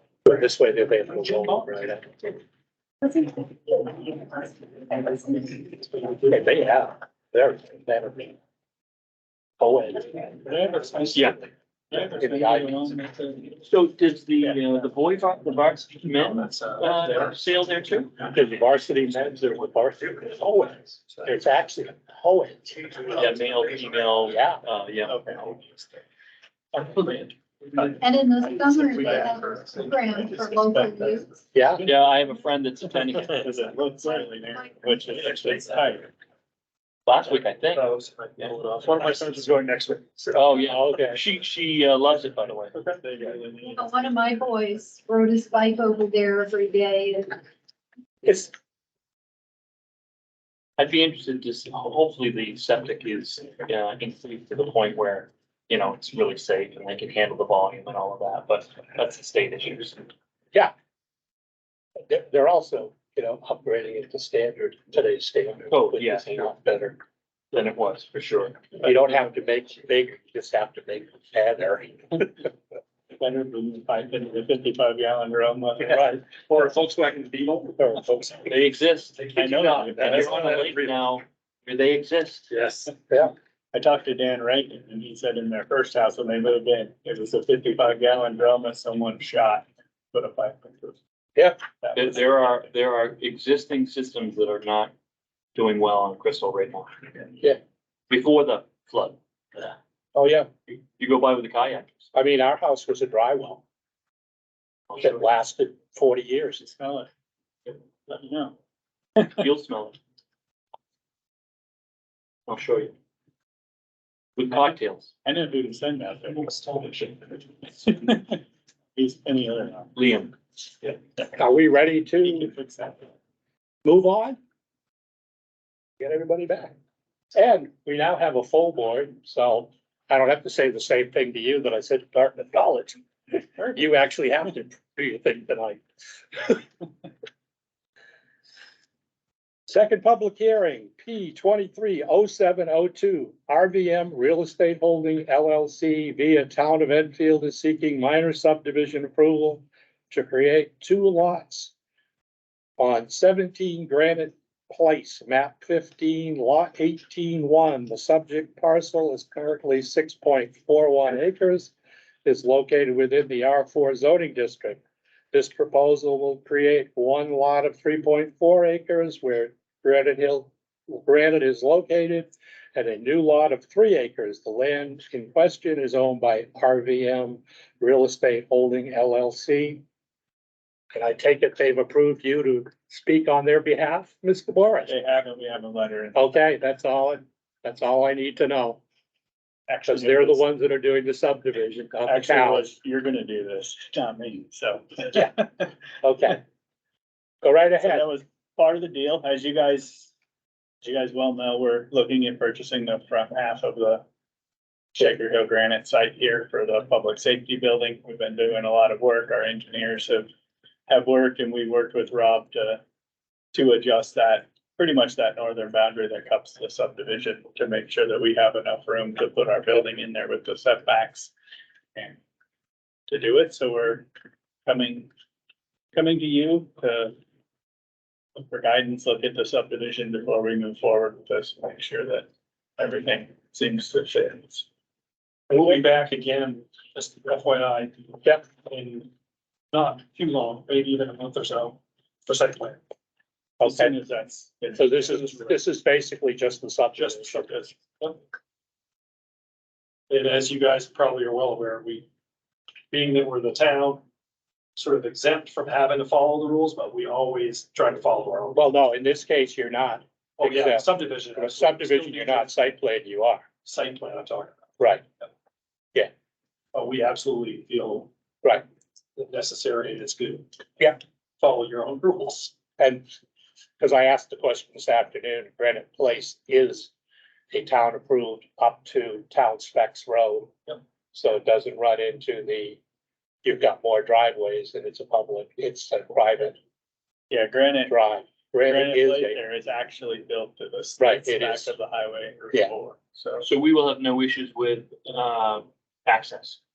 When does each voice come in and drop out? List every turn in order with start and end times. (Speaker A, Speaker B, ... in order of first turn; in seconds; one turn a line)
Speaker A: 0.2-2.1
Speaker B: 3.0-3.4
Speaker B: 4.0-4.5
Speaker B: 5.0-5.6
Speaker A: 6.2-8.3
Speaker A: 9.6-10.3
Speaker C: 10.4-11.3
Speaker D: 11.1-11.4
Speaker C: 11.9-13.1
Speaker A: 12.2-12.8
Speaker D: 13.6-18.1
Speaker A: 18.2-23.1
Speaker D: 23.1-25.1
Speaker A: 24.2-24.6
Speaker C: 25.0-26.0
Speaker C: 26.7-27.3
Speaker B: 27.9-31.3
Speaker C: 29.0-32.1
Speaker A: 31.5-31.9
Speaker D: 31.8-33.5
Speaker C: 33.3-36.1
Speaker D: 37.0-38.5
Speaker E: 37.7-40.4
Speaker D: 40.3-42.7
Speaker A: 40.6-41.2
Speaker C: 42.7-43.9
Speaker B: 43.7-47.4
Speaker A: 48.2-48.5
Speaker D: 50.8-60.1
Speaker A: 62.1-67.0
Speaker D: 65.7-66.5
Speaker D: 67.5-68.6
Speaker A: 68.8-72.5
Speaker C: 73.2-76.2
Speaker A: 75.8-78.1
Speaker C: 78.0-78.2
Speaker D: 78.4-82.5
Speaker C: 79.3-80.7
Speaker A: 80.0-80.5
Speaker C: 82.5-82.9
Speaker C: 83.7-91.0
Speaker C: 91.8-92.7
Speaker D: 91.9-94.9
Speaker D: 95.5-97.3
Speaker D: 98.1-99.8
Speaker A: 100.1-100.5
Speaker D: 101.0-102.0
Speaker A: 102.1-103.6
Speaker D: 104.9-105.2
Speaker A: 105.0-106.7
Speaker C: 106.6-107.1
Speaker C: 108.1-108.5
Speaker D: 109.3-110.0
Speaker D: 112.5-112.9
Speaker D: 114.4-115.1
Speaker C: 115.2-118.4
Speaker C: 118.9-119.9
Speaker D: 120.0-120.9
Speaker A: 121.3-122.5
Speaker C: 122.2-123.1
Speaker A: 123.8-124.4
Speaker A: 126.0-126.7
Speaker A: 127.3-133.0
Speaker A: 133.6-136.6
Speaker A: 139.7-151.7
Speaker A: 152.8-161.7
Speaker A: 162.2-164.8
Speaker A: 165.3-179.8
Speaker A: 180.9-184.9
Speaker C: 184.8-186.2
Speaker A: 186.1-188.8
Speaker C: 189.7-190.4
Speaker A: 189.8-192.7
Speaker C: 192.1-195.6
Speaker A: 196.0-196.4
Speaker A: 197.4-198.1
Speaker C: 197.8-200.1
Speaker C: 200.8-204.0
Speaker C: 204.9-210.3
Speaker C: 210.9-212.8
Speaker C: 213.5-221.3
Speaker C: 221.9-222.2
Speaker C: 223.1-224.1
Speaker C: 224.7-225.1
Speaker C: 225.9-227.1
Speaker C: 228.3-234.7
Speaker E: 235.5-239.1
Speaker E: 239.7-242.8
Speaker A: 243.6-243.9
Speaker C: 243.6-245.6
Speaker A: 244.8-247.5
Speaker C: 246.9-247.7
Speaker E: 250.1-252.1
Speaker E: 252.9-254.0
Speaker E: 254.8-258.6
Speaker A: 258.5-263.5
Speaker E: 260.4-262.5
Speaker E: 263.6-264.5
Speaker E: 266.7-268.1
Speaker E: 269.2-270.5
Speaker E: 271.4-272.5
Speaker A: 272.8-273.0
Speaker A: 273.8-276.9
Speaker A: 277.5-280.5
Speaker A: 281.1-282.8
Speaker A: 283.4-286.6
Speaker C: 287.3-287.9
Speaker A: 287.9-289.4
Speaker C: 288.6-293.5
Speaker A: 291.0-291.7
Speaker D: 293.4-296.6